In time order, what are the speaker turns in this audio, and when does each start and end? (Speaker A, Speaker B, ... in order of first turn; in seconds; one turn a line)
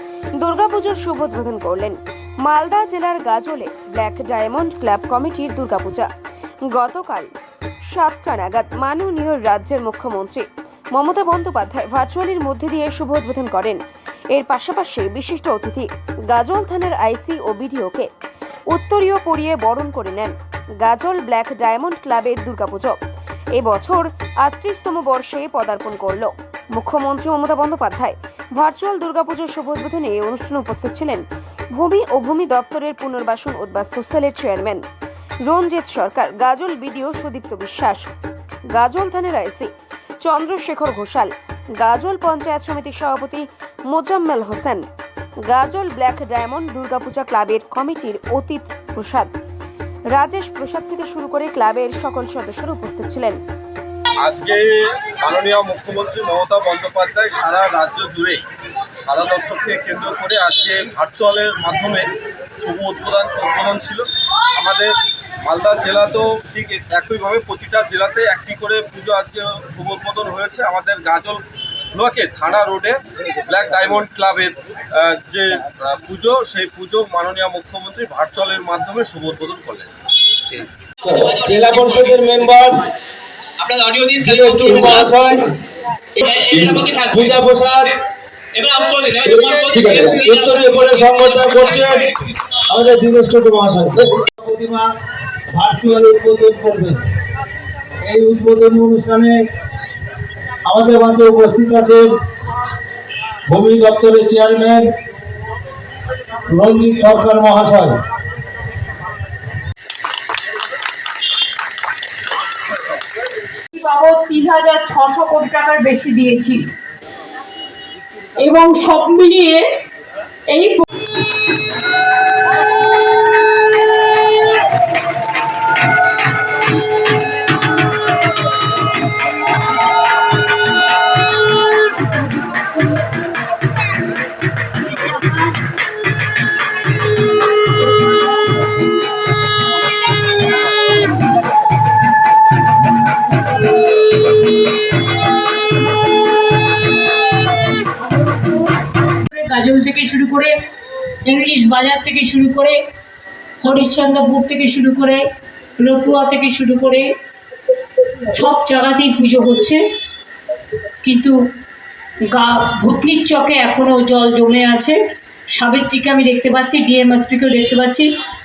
Speaker A: 0.4-6.1
Speaker A: 6.7-7.3
Speaker A: 7.9-18.1
Speaker A: 18.7-23.0
Speaker A: 23.5-34.8
Speaker A: 35.5-38.1
Speaker A: 38.7-39.7
Speaker A: 40.2-44.8
Speaker A: 45.5-49.3
Speaker A: 50.1-53.4
Speaker B: 54.2-58.4
Speaker B: 59.0-62.1
Speaker B: 62.6-71.4
Speaker B: 71.9-79.9
Speaker C: 81.0-82.9
Speaker D: 83.6-84.7
Speaker C: 84.2-85.5
Speaker C: 86.2-88.0
Speaker D: 86.4-87.2
Speaker D: 88.6-90.4
Speaker C: 89.2-92.1
Speaker C: 92.7-94.9
Speaker C: 95.5-97.0
Speaker C: 98.0-99.4
Speaker C: 100.7-102.1
Speaker C: 103.5-104.9
Speaker C: 106.5-108.0
Speaker E: 113.7-116.7
Speaker E: 118.4-119.6
Speaker E: 120.5-120.8
Speaker E: 149.3-150.5
Speaker E: 151.2-152.8
Speaker E: 153.6-155.2
Speaker E: 155.8-157.1
Speaker E: 158.3-159.8
Speaker E: 161.0-161.3
Speaker E: 162.3-165.0
Speaker E: 165.5-168.1